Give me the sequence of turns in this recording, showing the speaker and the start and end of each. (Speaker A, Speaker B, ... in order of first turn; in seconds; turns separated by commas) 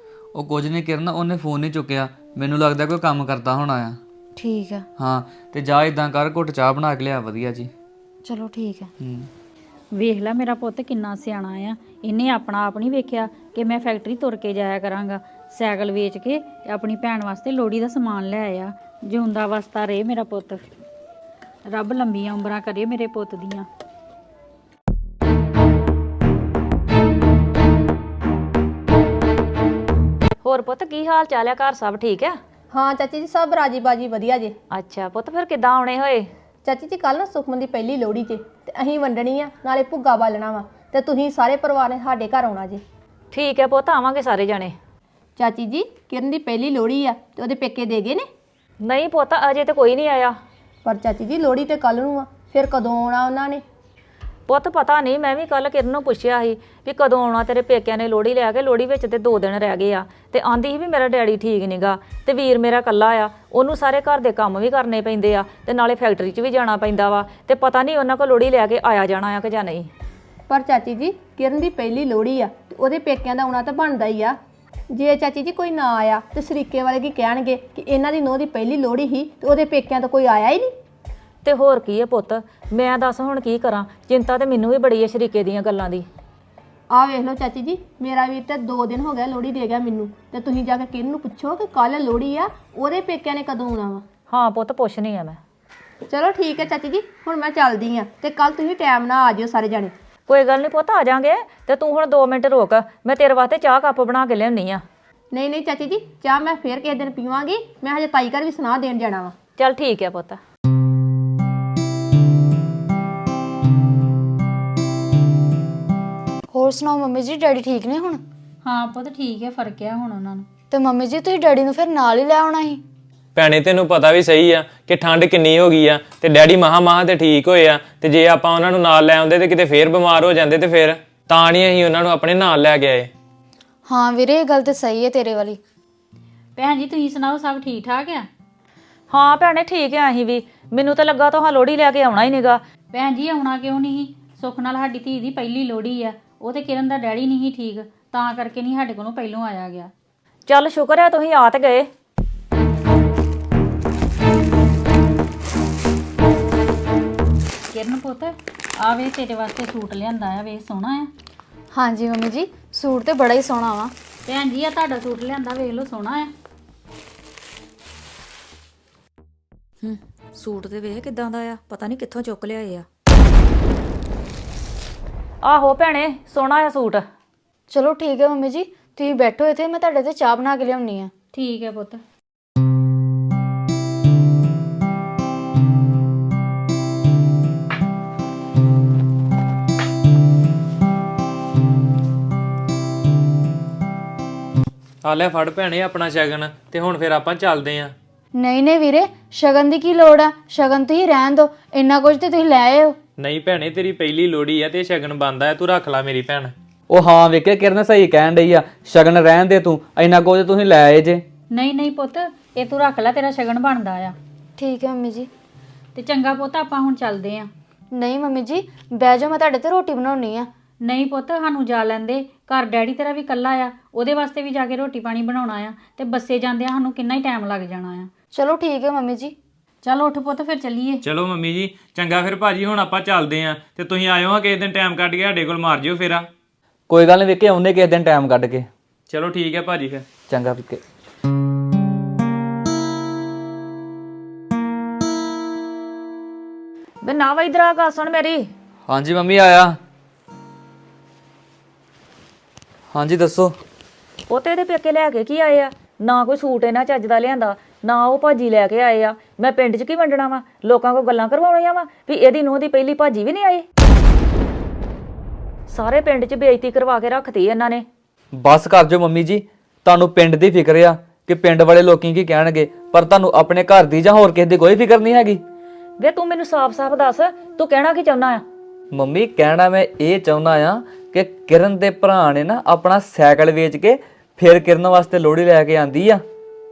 Speaker A: 0.3-4.0, Speaker B: 4.4-4.8, Speaker A: 5.0-7.7, Speaker B: 8.2-8.9, Speaker A: 9.0-9.3, Speaker C: 9.9-20.6, Speaker C: 21.7-23.6, Speaker D: 30.4-32.4, Speaker E: 32.7-34.5, Speaker D: 34.7-36.3, Speaker E: 36.6-42.8, Speaker D: 43.3-44.7, Speaker E: 45.4-48.3, Speaker D: 48.8-50.4, Speaker E: 50.8-53.6, Speaker D: 54.5-69.9, Speaker E: 70.5-74.4, Speaker E: 74.9-80.7, Speaker D: 81.4-86.1, Speaker E: 86.9-94.0, Speaker D: 94.3-95.4, Speaker E: 96.1-99.9, Speaker D: 100.3-104.8, Speaker E: 105.3-109.3, Speaker D: 109.6-110.4, Speaker B: 116.5-118.2, Speaker C: 118.6-120.5, Speaker B: 120.7-122.8, Speaker F: 123.3-133.1, Speaker B: 133.8-135.6, Speaker C: 136.6-138.3, Speaker D: 139.1-142.6, Speaker C: 142.9-149.9, Speaker D: 150.5-151.9, Speaker C: 157.7-161.1, Speaker B: 161.7-163.9, Speaker C: 164.2-166.3, Speaker D: 169.8-172.8, Speaker D: 175.4-177.0, Speaker B: 177.7-181.1, Speaker C: 181.3-182.0, Speaker F: 195.0-197.9, Speaker B: 198.3-203.0, Speaker F: 203.2-206.5, Speaker A: 206.9-211.2, Speaker C: 211.5-214.2, Speaker B: 214.6-215.3, Speaker C: 215.9-217.5, Speaker B: 217.9-220.5, Speaker C: 220.8-228.1, Speaker B: 228.3-229.3, Speaker C: 229.8-231.0, Speaker F: 231.0-236.3, Speaker A: 236.9-238.7, Speaker F: 239.1-240.2, Speaker A: 240.3-240.8, Speaker D: 247.0-248.5, Speaker A: 248.9-249.8, Speaker A: 252.9-253.6, Speaker D: 254.3-263.6, Speaker D: 265.7-267.9, Speaker A: 268.3-275.4, Speaker D: 276.0-278.4, Speaker A: 278.9-286.2